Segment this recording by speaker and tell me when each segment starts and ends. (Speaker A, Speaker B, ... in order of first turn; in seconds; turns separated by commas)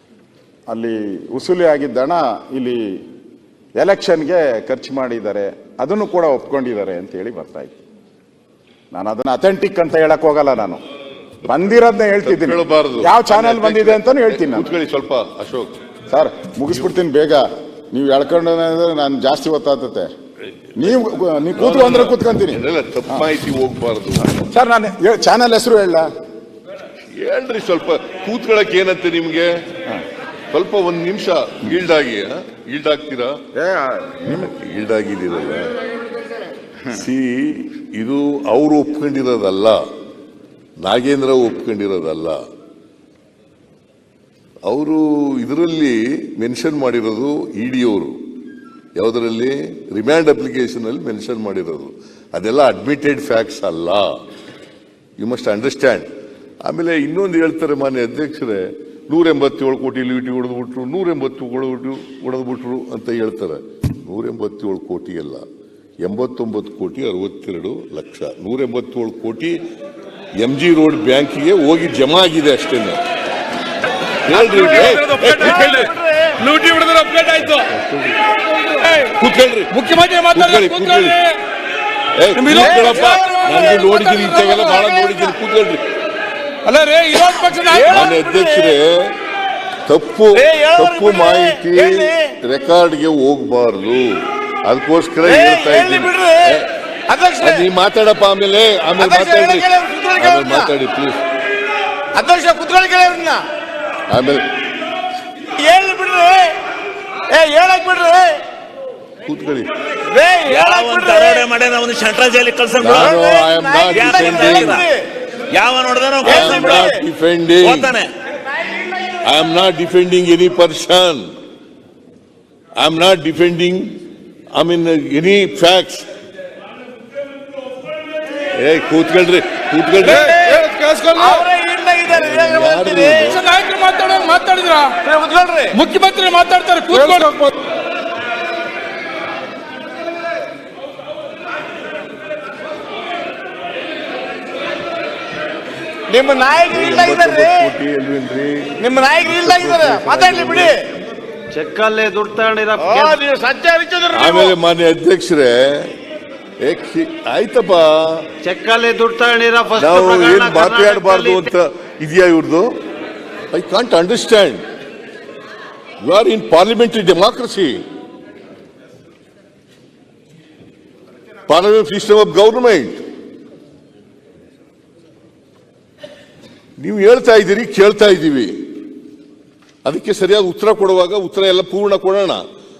Speaker A: 0.7-3.0, Speaker A: 3.8-7.8, Speaker A: 8.9-10.8, Speaker A: 11.4-14.7, Speaker B: 12.2-15.7, Speaker A: 16.1-20.1, Speaker A: 20.8-23.3, Speaker B: 21.5-24.5, Speaker A: 24.3-26.1, Speaker B: 27.1-29.5, Speaker B: 30.5-33.3, Speaker A: 33.5-34.5, Speaker B: 34.3-35.7, Speaker B: 36.9-39.8, Speaker B: 40.8-42.4, Speaker B: 44.6-48.2, Speaker B: 48.9-54.1, Speaker B: 55.2-56.1, Speaker B: 56.6-65.4, Speaker B: 66.0-69.6, Speaker B: 70.4-73.0, Speaker B: 74.2-75.9, Speaker C: 74.3-76.4, Speaker D: 74.7-75.9, Speaker D: 76.4-77.6, Speaker B: 77.6-78.2, Speaker D: 78.7-79.1, Speaker B: 79.0-79.8, Speaker D: 79.7-81.4, Speaker B: 80.3-81.2, Speaker B: 82.1-85.8, Speaker D: 82.3-84.9, Speaker C: 82.5-83.9, Speaker D: 86.6-88.0, Speaker C: 87.2-88.7, Speaker B: 87.9-89.2, Speaker B: 89.8-96.7, Speaker C: 90.3-92.3, Speaker C: 95.2-97.7, Speaker B: 97.4-101.2, Speaker C: 99.0-100.7, Speaker C: 102.1-103.4, Speaker B: 104.1-104.5, Speaker C: 105.5-106.6, Speaker C: 107.3-108.4, Speaker B: 109.2-109.7, Speaker C: 110.0-111.5, Speaker E: 110.4-113.0, Speaker B: 112.8-114.8, Speaker C: 112.9-115.0, Speaker E: 113.9-114.9, Speaker E: 115.5-116.9, Speaker B: 116.2-117.9, Speaker C: 116.2-117.0, Speaker E: 117.6-118.1, Speaker B: 119.2-121.3, Speaker B: 122.8-123.9, Speaker B: 124.5-126.1, Speaker B: 128.5-130.3, Speaker C: 130.1-133.4, Speaker D: 130.3-131.4, Speaker B: 132.1-133.4, Speaker D: 133.3-134.9, Speaker C: 135.0-135.8, Speaker D: 135.7-137.5, Speaker C: 146.1-147.7, Speaker B: 146.7-150.8, Speaker C: 148.8-150.8, Speaker F: 151.5-153.2, Speaker C: 152.8-154.5, Speaker B: 154.1-155.9, Speaker B: 156.6-158.2, Speaker F: 158.4-161.5, Speaker B: 159.8-162.7, Speaker B: 163.5-164.6, Speaker B: 166.0-167.8, Speaker B: 171.5-173.0, Speaker B: 176.8-178.5, Speaker B: 179.8-182.4